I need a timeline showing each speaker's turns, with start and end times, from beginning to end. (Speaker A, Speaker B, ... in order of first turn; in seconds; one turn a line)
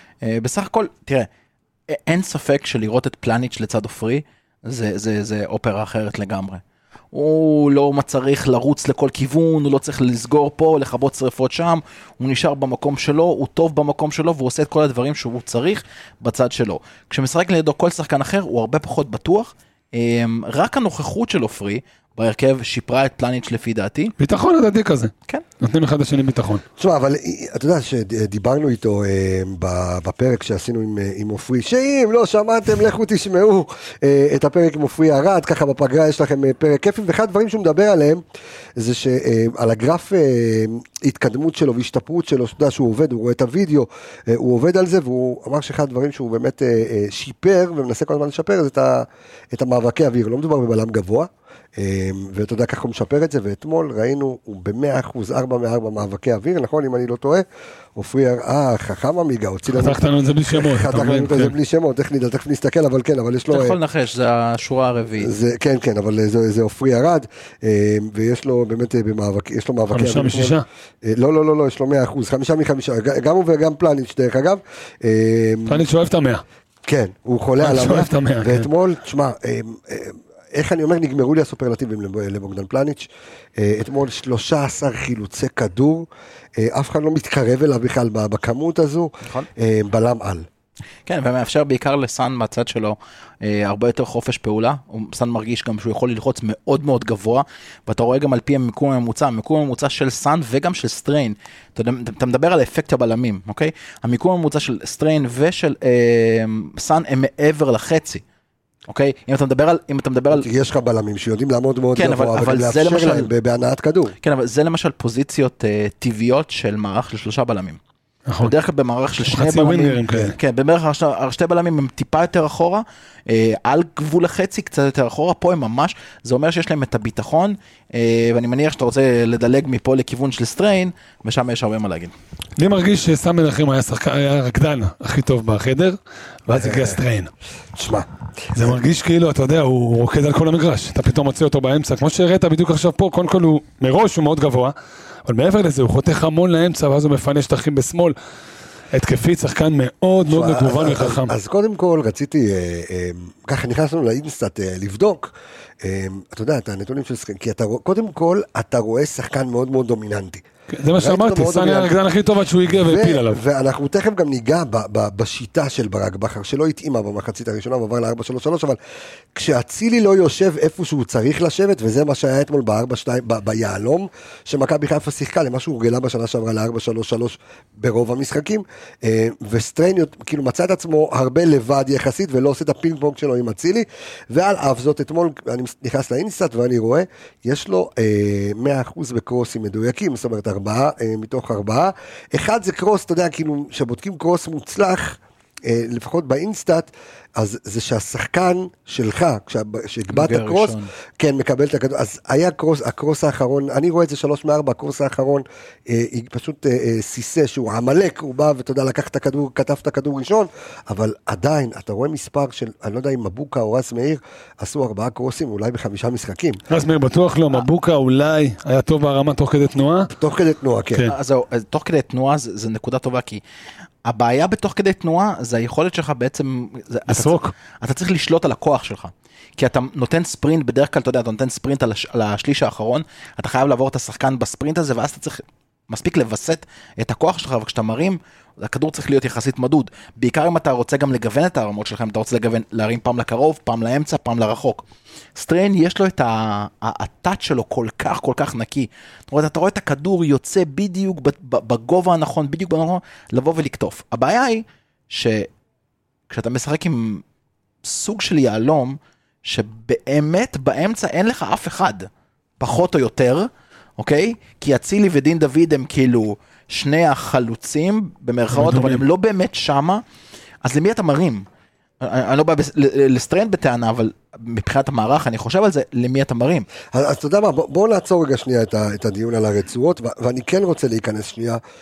Speaker A: 0.2-1.3
Speaker A: 1.9-24.1
Speaker B: 24.2-26.6
Speaker C: 26.8-38.2
Speaker C: 38.8-57.4
Speaker C: 58.0-60.0
Speaker B: 59.7-61.5
Speaker C: 60.5-63.8
Speaker A: 63.5-65.3
Speaker C: 65.2-75.8
Speaker B: 69.9-70.6
Speaker B: 75.7-76.4
Speaker C: 76.8-83.1
Speaker B: 77.6-78.7
Speaker C: 83.6-86.1
Speaker C: 86.6-90.5
Speaker A: 91.0-108.2
Speaker A: 108.9-110.5
Speaker C: 110.3-114.1
Speaker A: 111.9-113.3
Speaker A: 114.2-117.8
Speaker B: 118.3-118.5
Speaker A: 118.4-132.1
Speaker B: 119.3-120.4
Speaker B: 132.6-137.3
Speaker C: 136.5-137.0
Speaker C: 137.8-138.7
Speaker B: 138.5-144.7
Speaker B: 145.2-148.1
Speaker B: 148.9-151.3
Speaker C: 150.3-155.3
Speaker C: 155.8-160.4
Speaker B: 160.7-163.4
Speaker C: 161.0-161.9
Speaker C: 162.7-168.8
Speaker C: 169.3-216.6
Speaker A: 200.1-200.9
Speaker B: 216.7-220.1
Speaker C: 220.1-221.1
Speaker A: 221.0-223.4
Speaker A: 224.0-244.8
Speaker B: 227.1-227.5
Speaker A: 245.3-255.5
Speaker A: 256.3-257.2
Speaker A: 257.8-270.0
Speaker B: 268.5-269.0
Speaker A: 270.6-271.5
Speaker A: 272.0-276.7
Speaker C: 276.9-281.6